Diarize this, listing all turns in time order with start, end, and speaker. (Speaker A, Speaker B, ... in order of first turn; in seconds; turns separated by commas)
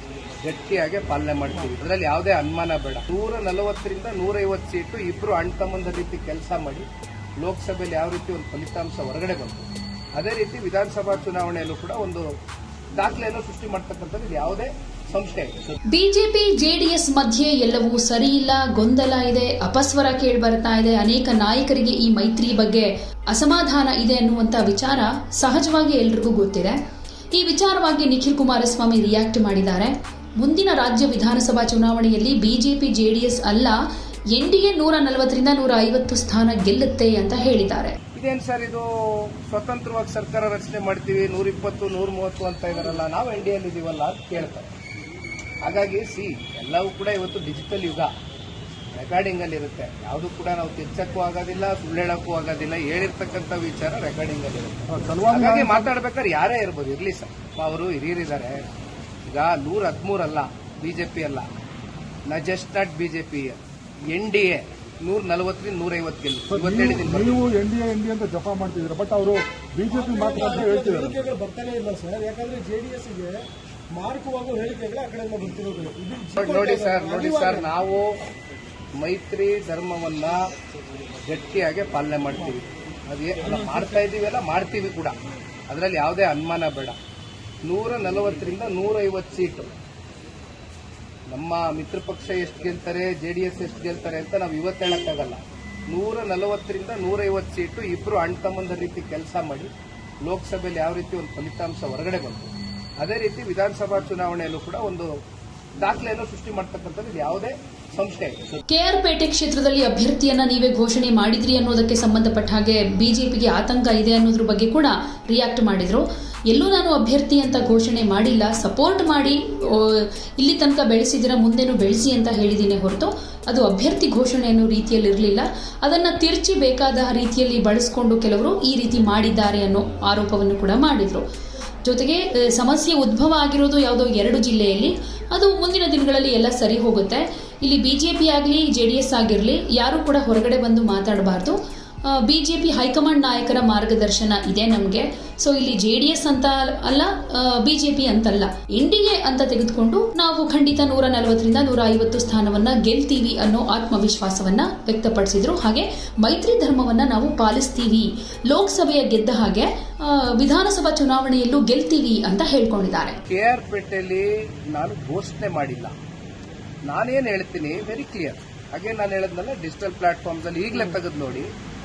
Speaker A: 0.4-6.9, Speaker A: 7.4-12.3, Speaker A: 12.9-15.8, Speaker B: 15.9-26.8, Speaker B: 27.3-33.8, Speaker B: 34.3-38.0, Speaker A: 38.1-44.7, Speaker A: 45.6-48.1, Speaker A: 48.9-58.6, Speaker C: 54.9-55.9, Speaker A: 59.3-61.5, Speaker A: 62.3-67.6, Speaker C: 66.5-71.2, Speaker D: 69.9-73.4, Speaker D: 73.9-77.7, Speaker A: 76.4-78.2, Speaker A: 79.0-80.4, Speaker A: 81.2-85.2, Speaker A: 85.7-87.0, Speaker A: 87.6-89.8, Speaker A: 91.3-99.7, Speaker A: 100.2-105.1, Speaker A: 105.8-108.6, Speaker B: 108.7-131.2, Speaker B: 131.8-163.2, Speaker A: 163.2-165.9, Speaker A: 166.8-171.5